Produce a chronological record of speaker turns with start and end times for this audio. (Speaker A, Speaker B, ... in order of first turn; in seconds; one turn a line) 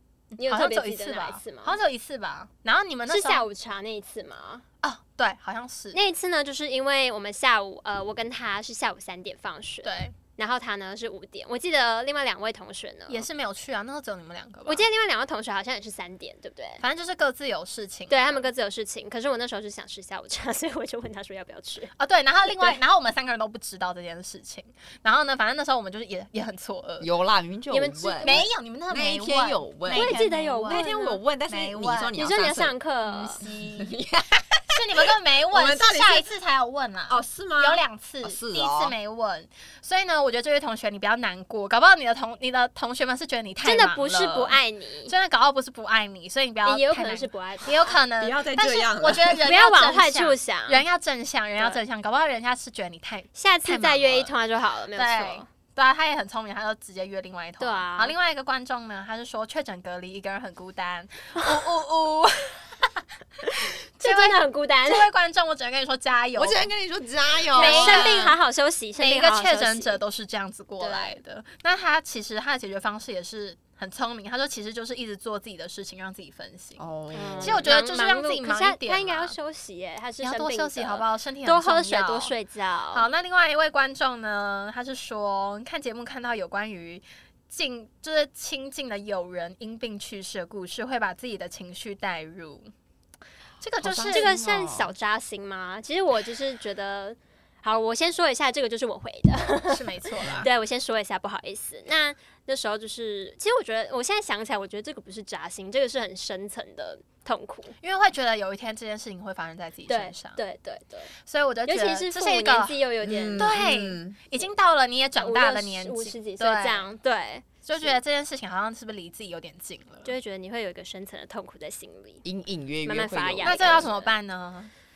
Speaker A: 0.4-1.7
Speaker B: 0.4-3.4
Speaker A: 3.1-4.6
Speaker B: 4.8-6.0
Speaker A: 5.9-13.2
Speaker B: 9.8-10.1
Speaker B: 13.1-14.8
Speaker A: 14.7-16.8
Speaker B: 16.8-18.4
Speaker A: 18.1-21.9
Speaker B: 22.0-27.1
Speaker C: 27.0-32.7
Speaker A: 27.7-28.5
Speaker B: 28.2-30.9
Speaker A: 29.9-31.2
Speaker B: 31.5-32.2
Speaker A: 32.1-33.4
Speaker B: 33.0-34.0
Speaker C: 33.4-36.2
Speaker B: 34.7-44.6
Speaker C: 37.1-38.9
Speaker A: 43.6-45.1
Speaker B: 45.1-54.3
Speaker A: 46.6-47.9
Speaker C: 48.2-49.4
Speaker A: 49.4-50.8
Speaker A: 53.3-55.5
Speaker B: 54.9-66.7
Speaker A: 57.6-58.1
Speaker A: 63.5-65.1
Speaker C: 66.3-68.3
Speaker B: 67.5-68.2
Speaker A: 67.5-70.0
Speaker B: 69.0-76.8
Speaker A: 70.8-71.2
Speaker C: 76.8-77.7
Speaker A: 77.1-83.0
Speaker B: 77.4-79.3
Speaker B: 80.2-82.3
Speaker B: 82.9-92.7
Speaker B: 93.6-94.3
Speaker C: 93.8-95.0
Speaker A: 94.0-107.7
Speaker B: 99.7-100.5
Speaker B: 107.8-110.4
Speaker A: 109.9-111.1
Speaker B: 111.2-112.8
Speaker A: 111.7-113.7
Speaker C: 113.0-114.2
Speaker B: 113.4-116.9
Speaker A: 115.2-118.0
Speaker B: 117.6-120.1
Speaker A: 120.0-122.2
Speaker C: 122.2-123.9
Speaker A: 122.8-124.1
Speaker B: 123.4-124.7